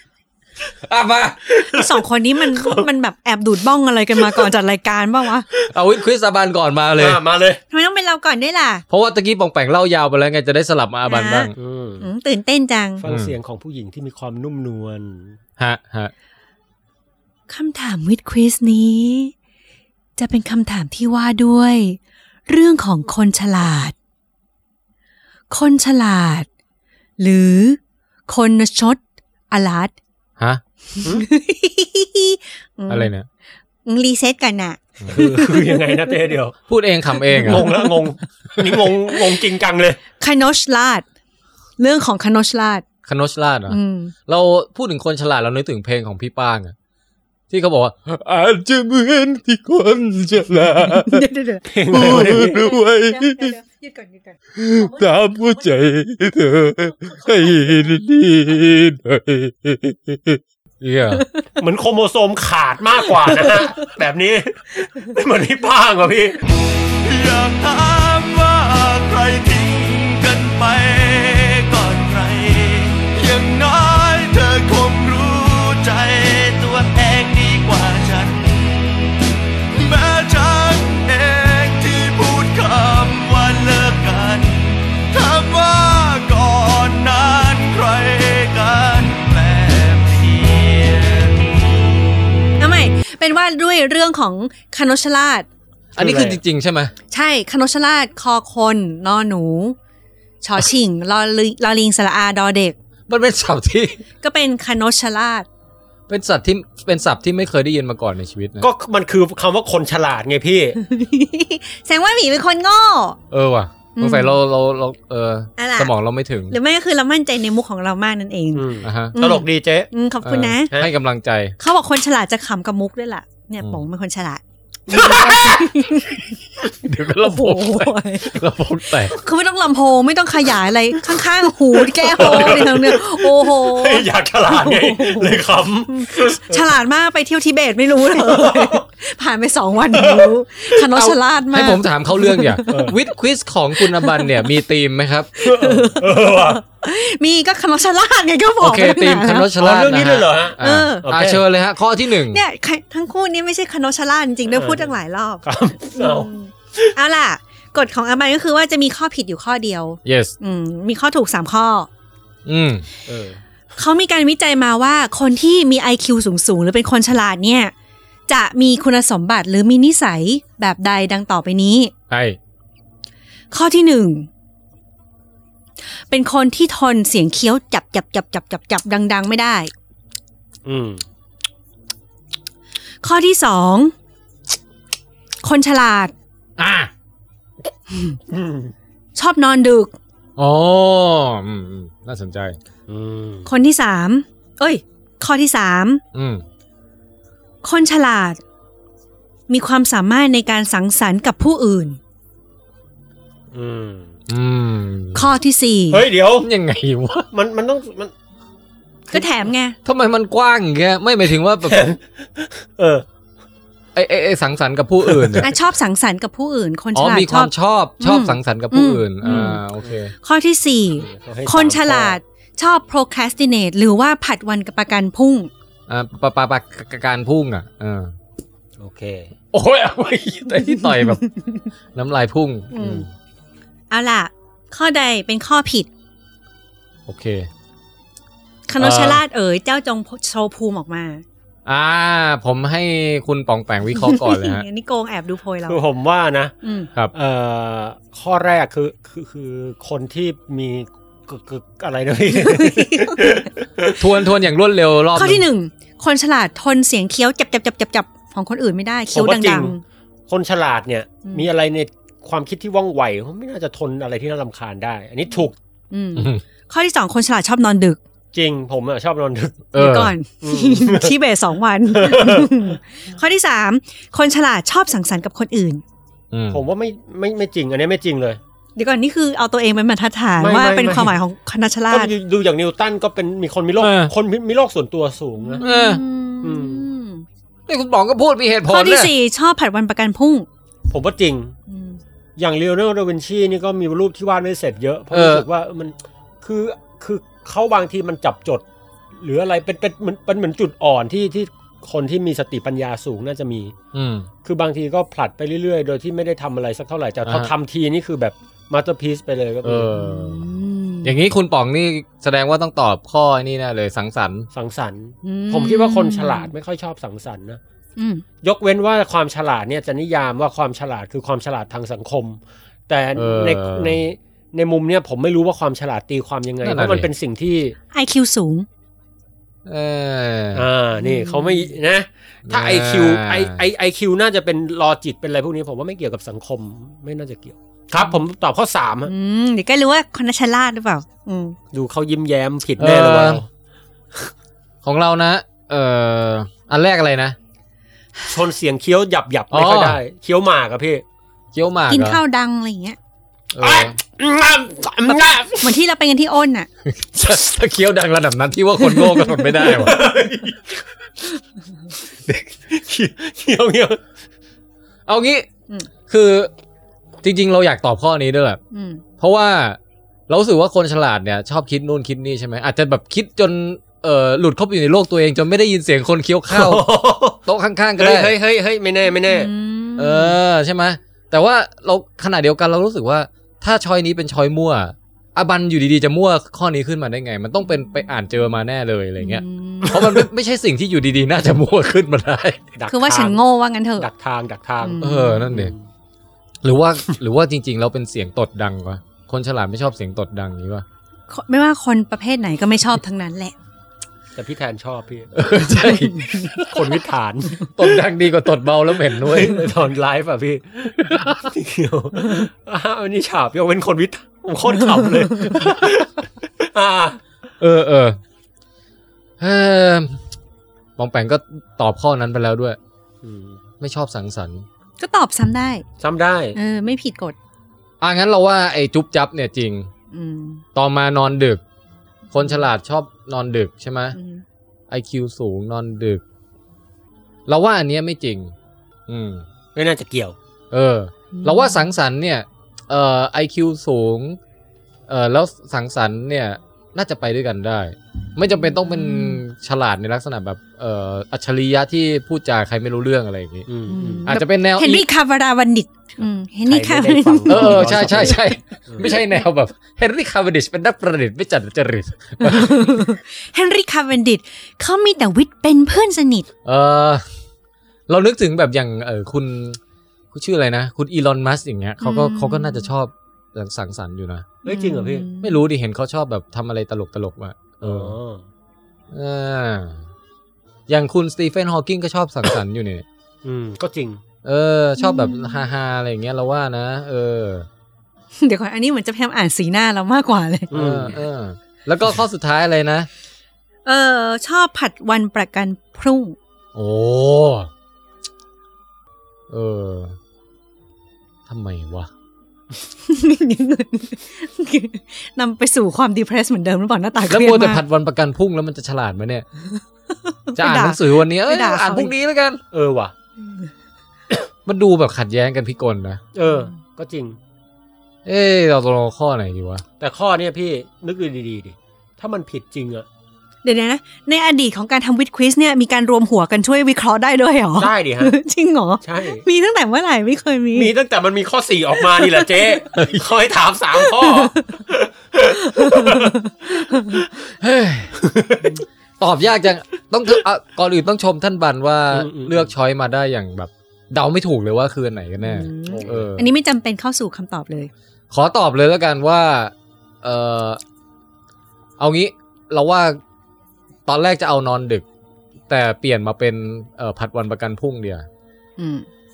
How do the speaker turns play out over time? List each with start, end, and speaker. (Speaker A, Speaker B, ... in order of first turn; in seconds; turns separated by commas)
Speaker A: 0.8-1.4, Speaker B: 1.5-2.9, Speaker C: 1.7-5.5, Speaker B: 4.2-4.5, Speaker A: 5.7-7.2, Speaker B: 7.0-7.6, Speaker C: 7.7-8.8, Speaker A: 8.9-11.5, Speaker C: 11.1-11.5, Speaker B: 11.6-12.1, Speaker C: 12.0-13.0, Speaker B: 13.0-15.4, Speaker A: 13.1-13.3, Speaker A: 15.6-16.1, Speaker C: 17.5-19.3, Speaker C: 20.2-23.9, Speaker C: 25.5-26.5, Speaker C: 27.2-29.0, Speaker C: 29.5-29.9, Speaker C: 31.0-33.1, Speaker A: 32.9-33.3, Speaker C: 33.9-36.0, Speaker B: 35.1-36.6, Speaker A: 36.7-37.7, Speaker B: 37.4-40.0, Speaker C: 37.5-37.8, Speaker C: 40.2-41.0, Speaker C: 41.8-42.9, Speaker A: 43.1-46.8, Speaker C: 43.7-44.1, Speaker A: 47.5-51.3, Speaker C: 50.8-54.9, Speaker B: 51.7-52.7, Speaker A: 51.9-53.5, Speaker A: 54.6-61.2, Speaker C: 61.2-61.5, Speaker B: 61.6-66.4, Speaker D: 66.7-79.1, Speaker D: 79.7-92.0, Speaker C: 92.6-95.5, Speaker A: 96.0-96.9, Speaker B: 96.0-96.4, Speaker C: 97.1-99.8, Speaker C: 100.4-102.8, Speaker A: 103.1-104.0, Speaker C: 104.2-105.5, Speaker A: 106.1-108.7, Speaker B: 108.6-110.8, Speaker C: 110.8-113.2, Speaker A: 113.3-116.5, Speaker C: 114.0-114.4, Speaker C: 115.6-115.9, Speaker C: 116.5-120.7, Speaker B: 118.5-119.9, Speaker A: 118.8-119.2, Speaker A: 120.2-121.6, Speaker C: 121.6-126.2, Speaker B: 124.9-125.7, Speaker A: 125.9-129.2, Speaker C: 127.2-128.4, Speaker C: 129.1-143.0, Speaker B: 132.0-136.7, Speaker B: 138.1-138.8, Speaker B: 139.9-140.3, Speaker A: 140.9-145.4, Speaker B: 142.7-143.0, Speaker C: 143.8-144.5, Speaker C: 145.4-149.5, Speaker B: 145.4-146.6, Speaker A: 148.6-152.4, Speaker B: 149.5-151.4, Speaker C: 150.6-151.1, Speaker C: 152.1-161.9, Speaker B: 154.5-156.3, Speaker A: 160.1-160.3, Speaker A: 162.5-162.9, Speaker B: 163.1-163.4, Speaker C: 163.8-167.7, Speaker C: 168.3-171.9, Speaker A: 172.1-172.4, Speaker C: 173.5-174.3, Speaker C: 176.1-179.7, Speaker B: 180.7-181.0, Speaker C: 183.0-183.9, Speaker C: 185.4-186.1, Speaker A: 186.6-186.9, Speaker C: 187.9-188.2, Speaker B: 188.3-188.7, Speaker C: 189.2-189.9, Speaker A: 190.4-192.6, Speaker B: 192.9-193.5, Speaker C: 193.5-196.0, Speaker A: 196.1-196.4, Speaker C: 197.6-198.4, Speaker C: 199.5-202.0, Speaker B: 203.5-204.1, Speaker A: 204.3-205.3, Speaker C: 205.1-206.1, Speaker B: 205.9-206.5, Speaker A: 206.4-207.3, Speaker B: 207.3-208.1, Speaker C: 209.1-209.8, Speaker A: 209.8-211.8, Speaker B: 211.7-213.1, Speaker A: 213.9-215.5, Speaker B: 215.0-215.5, Speaker C: 215.4-219.6, Speaker A: 216.9-220.1, Speaker B: 219.3-219.9, Speaker C: 220.2-225.5, Speaker B: 221.0-222.2, Speaker A: 225.9-228.1, Speaker B: 228.8-229.3, Speaker A: 229.5-231.2, Speaker C: 230.8-231.3, Speaker A: 231.9-233.1, Speaker C: 232.7-233.1, Speaker C: 233.9-235.9, Speaker A: 237.1-237.5, Speaker C: 238.7-241.2, Speaker A: 238.8-239.2, Speaker A: 241.7-244.7, Speaker C: 243.9-245.8, Speaker B: 245.7-246.5, Speaker C: 246.6-246.9, Speaker B: 247.1-254.1, Speaker C: 252.4-253.3, Speaker A: 254.0-255.4, Speaker C: 255.2-259.8, Speaker B: 259.1-259.7, Speaker B: 260.3-265.6, Speaker C: 265.9-268.0, Speaker A: 266.2-266.4, Speaker B: 268.3-269.7, Speaker A: 269.7-270.1, Speaker C: 269.8-275.8, Speaker B: 270.4-271.2, Speaker B: 271.9-272.7, Speaker A: 276.3-276.6, Speaker B: 276.5-278.4, Speaker C: 278.8-282.1, Speaker B: 280.4-281.2, Speaker B: 281.9-285.6, Speaker A: 283.8-284.1, Speaker C: 285.4-287.2, Speaker A: 285.6-286.0, Speaker B: 286.4-286.9, Speaker A: 287.7-289.1, Speaker C: 288.7-290.5, Speaker B: 290.9-291.6, Speaker C: 291.7-292.0, Speaker B: 292.4-298.6, Speaker A: 295.1-295.5, Speaker B: 299.2-303.7, Speaker A: 303.9-304.3, Speaker B: 304.4-310.0, Speaker A: 307.2-307.5, Speaker A: 309.6-310.4, Speaker C: 309.9-311.1, Speaker A: 311.0-314.5, Speaker B: 314.5-317.6, Speaker C: 315.2-316.5, Speaker C: 318.0-318.2, Speaker B: 318.4-327.8, Speaker A: 323.1-324.0, Speaker A: 326.6-327.1, Speaker C: 327.9-328.7, Speaker A: 329.7-330.7, Speaker B: 330.5-339.1, Speaker C: 331.0-331.7, Speaker A: 332.5-333.6, Speaker C: 339.1-341.6, Speaker B: 341.7-343.5, Speaker A: 342.8-343.4, Speaker A: 344.8-347.4, Speaker B: 348.3-351.0, Speaker A: 349.5-350.0, Speaker A: 351.5-352.2, Speaker C: 351.9-353.0, Speaker A: 353.5-354.0, Speaker B: 353.6-355.8, Speaker C: 355.1-356.7, Speaker A: 356.9-360.0, Speaker C: 358.9-359.7, Speaker B: 359.7-360.8, Speaker B: 362.7-364.0, Speaker A: 365.1-365.5, Speaker A: 366.1-366.5, Speaker A: 367.2-368.6, Speaker C: 368.7-369.0, Speaker A: 369.2-378.3, Speaker B: 376.5-377.4, Speaker B: 378.0-379.5, Speaker C: 379.2-380.4, Speaker A: 380.0-392.7, Speaker C: 389.2-390.2, Speaker B: 392.7-393.4, Speaker C: 392.9-394.1, Speaker B: 394.0-395.8, Speaker C: 394.8-395.4, Speaker A: 395.0-395.7, Speaker A: 396.6-400.9, Speaker C: 401.3-403.5, Speaker B: 404.4-405.5, Speaker A: 405.4-406.8, Speaker C: 405.6-406.4, Speaker B: 406.6-407.7, Speaker A: 407.8-409.6, Speaker B: 409.1-417.2, Speaker A: 411.0-411.4, Speaker C: 415.2-415.6, Speaker A: 417.6-418.2, Speaker A: 419.4-420.2, Speaker A: 421.0-422.8, Speaker B: 423.2-423.6, Speaker A: 423.8-424.7, Speaker C: 425.0-425.9, Speaker B: 426.0-426.6, Speaker C: 426.6-427.4, Speaker A: 428.0-429.9, Speaker C: 430.1-430.6, Speaker A: 430.8-431.6, Speaker A: 432.3-434.2, Speaker C: 434.1-434.4, Speaker A: 434.9-436.2, Speaker A: 437.5-438.5, Speaker A: 439.1-439.4, Speaker B: 439.8-440.4, Speaker A: 440.7-444.4, Speaker C: 441.3-441.8, Speaker A: 445.1-453.7, Speaker C: 448.8-449.4, Speaker B: 453.7-454.3, Speaker C: 453.9-458.6, Speaker A: 454.3-455.1, Speaker B: 456.7-459.2, Speaker A: 457.5-462.9, Speaker C: 462.4-466.5, Speaker A: 466.6-467.2, Speaker A: 468.1-469.8, Speaker A: 470.3-474.5, Speaker C: 472.0-472.9, Speaker B: 474.6-475.3, Speaker C: 474.6-475.6, Speaker A: 475.4-478.2, Speaker B: 477.8-478.4, Speaker A: 479.1-480.0, Speaker A: 480.9-483.0, Speaker B: 483.4-484.2, Speaker A: 484.4-487.7, Speaker C: 485.0-485.6, Speaker C: 488.4-490.7, Speaker B: 490.7-491.2, Speaker A: 490.7-493.1, Speaker C: 493.9-496.4, Speaker A: 496.8-497.7, Speaker A: 499.5-500.2, Speaker A: 501.5-502.1, Speaker C: 503.1-507.8, Speaker A: 507.3-509.4, Speaker C: 509.7-512.1, Speaker A: 510.6-512.6, Speaker B: 512.7-513.1, Speaker C: 513.4-513.7, Speaker A: 514.7-516.2, Speaker B: 516.3-517.4, Speaker A: 518.2-519.8, Speaker B: 520.0-523.1, Speaker C: 523.6-530.9, Speaker B: 527.8-528.3, Speaker B: 529.0-529.4, Speaker B: 530.7-536.4, Speaker C: 532.0-533.0, Speaker C: 534.0-534.8, Speaker C: 535.6-537.2, Speaker A: 537.6-538.2, Speaker B: 538.2-538.8, Speaker A: 539.2-546.5, Speaker B: 542.1-542.7, Speaker C: 545.4-547.9, Speaker B: 545.9-546.3, Speaker A: 548.3-550.8, Speaker A: 552.0-553.2, Speaker A: 554.1-555.0, Speaker A: 555.7-558.3, Speaker C: 558.8-559.1